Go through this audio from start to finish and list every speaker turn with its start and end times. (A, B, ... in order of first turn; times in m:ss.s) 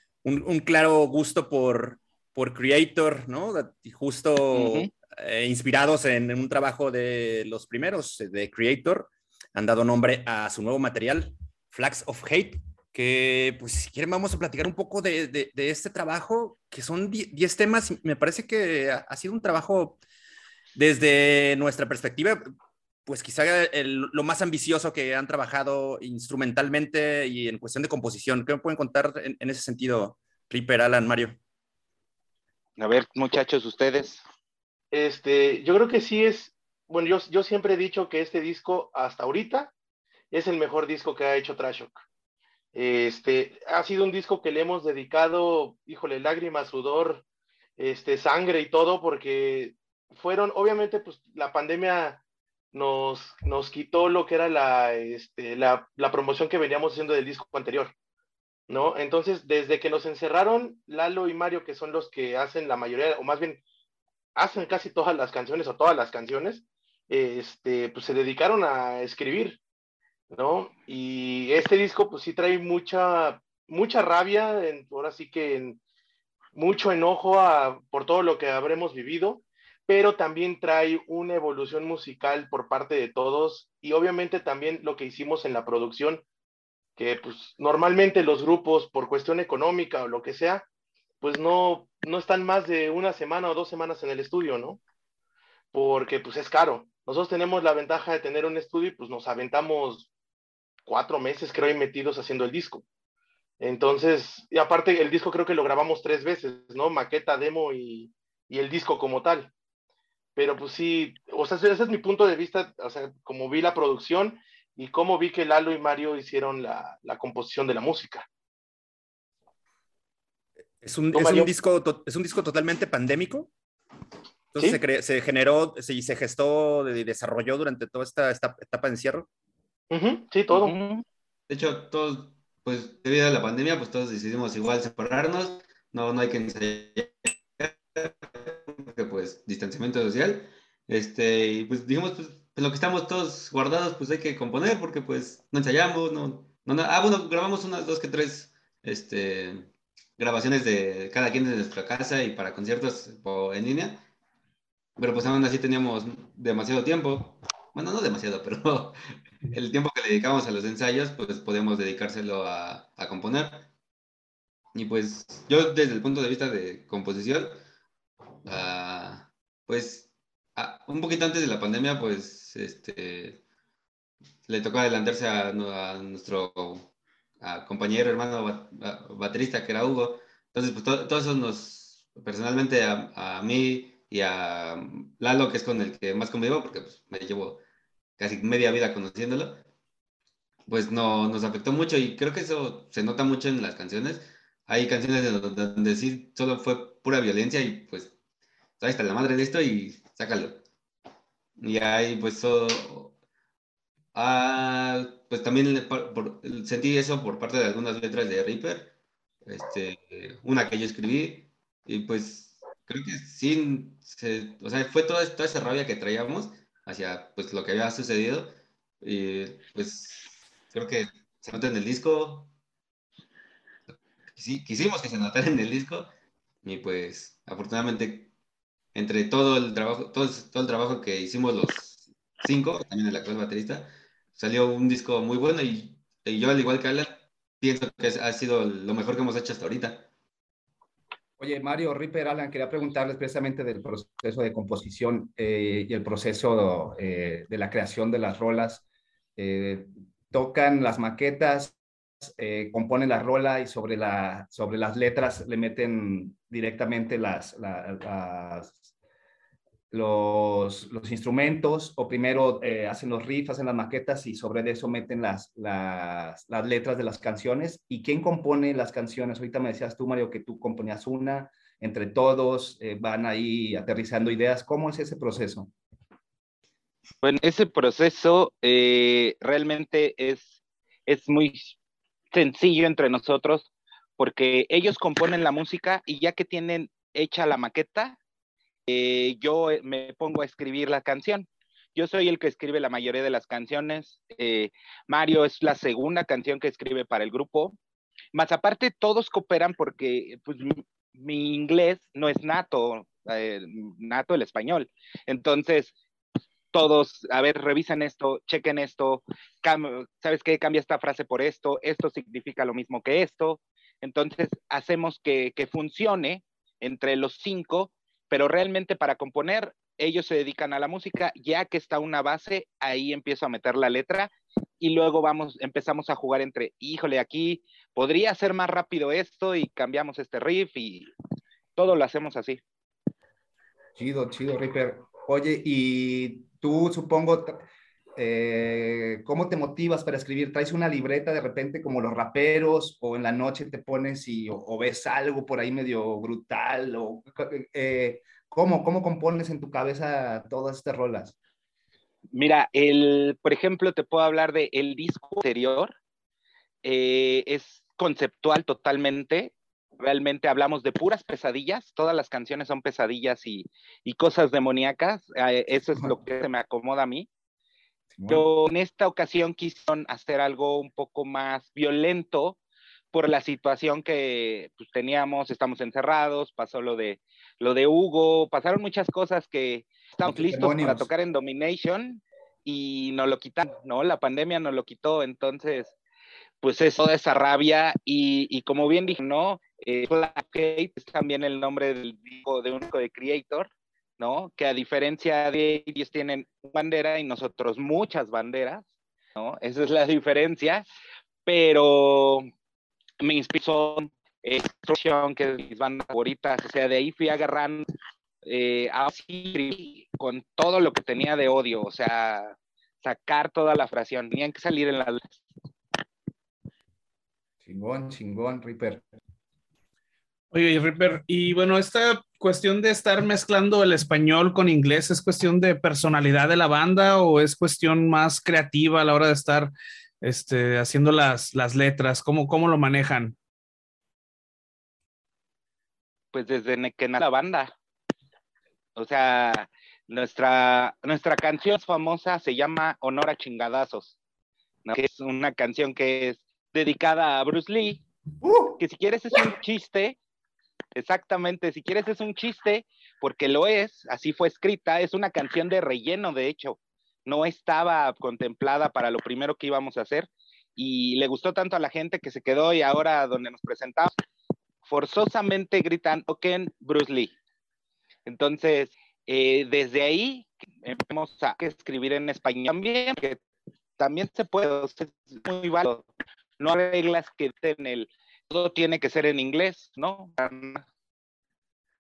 0:00.2-0:20.0 A
0:04.5-0:04.9 B
0:20.8-0:22.4 A
0:23.1-0:31.4 A
0:32.8-0:34.2 B
0:34.9-0:39.7 C
0:40.3-0:42.0 C
0:42.7-0:47.2 C
0:47.8-0:52.2 C
0:52.7-0:57.9 C
0:58.7-1:03.6 C
1:04.4-1:09.6 C
1:10.3-1:15.8 C
1:16.6-1:26.2 C
1:27.0-1:30.7 C
1:31.2-1:34.8 C
1:35.7-1:40.1 C
1:40.9-1:42.8 C
1:43.6-1:49.5 C
1:50.4-1:58.3 C
2:00.8-2:03.5 A
2:01.2-2:01.5 C
2:04.5-2:09.3 A
2:09.9-2:10.8 C
2:10.5-2:11.0 B
2:11.5-2:34.0 D
2:35.0-2:39.0 D
2:39.5-2:43.7 D
2:44.7-2:47.6 D
2:48.4-2:53.4 D
2:54.4-2:56.9 D
2:57.4-3:07.6 D
3:08.2-3:09.6 D
3:10.7-3:18.1 D
3:18.8-3:20.6 D
3:21.6-3:23.1 D
3:24.1-3:28.9 D
3:29.4-3:42.5 D
3:43.9-3:46.1 D
3:46.6-3:48.3 D
3:49.0-4:00.1 D
4:01.4-4:08.8 E
4:09.4-4:11.8 E
4:12.3-4:18.8 E
4:19.9-4:35.7 E
4:37.2-4:40.6 B
4:41.1-4:41.8 B
4:42.3-4:48.2 B
4:48.9-4:57.8 B
4:58.3-5:06.0 B
5:06.7-5:31.1 B
5:31.8-5:32.6 B
5:34.0-5:51.4 E
5:52.3-5:55.9 B
5:56.8-6:07.3 B
6:08.1-6:08.5 E
6:08.3-6:12.6 B
6:13.1-6:25.9 B
6:20.3-6:21.1 E
6:26.6-6:40.8 B
6:41.5-6:42.5 B
6:43.2-6:47.9 B
6:48.4-6:55.4 B
6:57.6-6:59.1 E
7:00.5-7:13.4 F
7:16.3-7:17.7 B
7:19.0-7:24.2 B
7:24.9-7:28.0 B
7:28.4-7:28.8 E
7:28.8-7:30.2 B
7:31.0-7:44.1 B
7:44.8-7:47.4 B
7:48.3-7:53.4 B
7:54.0-7:56.1 B
7:56.6-8:00.8 B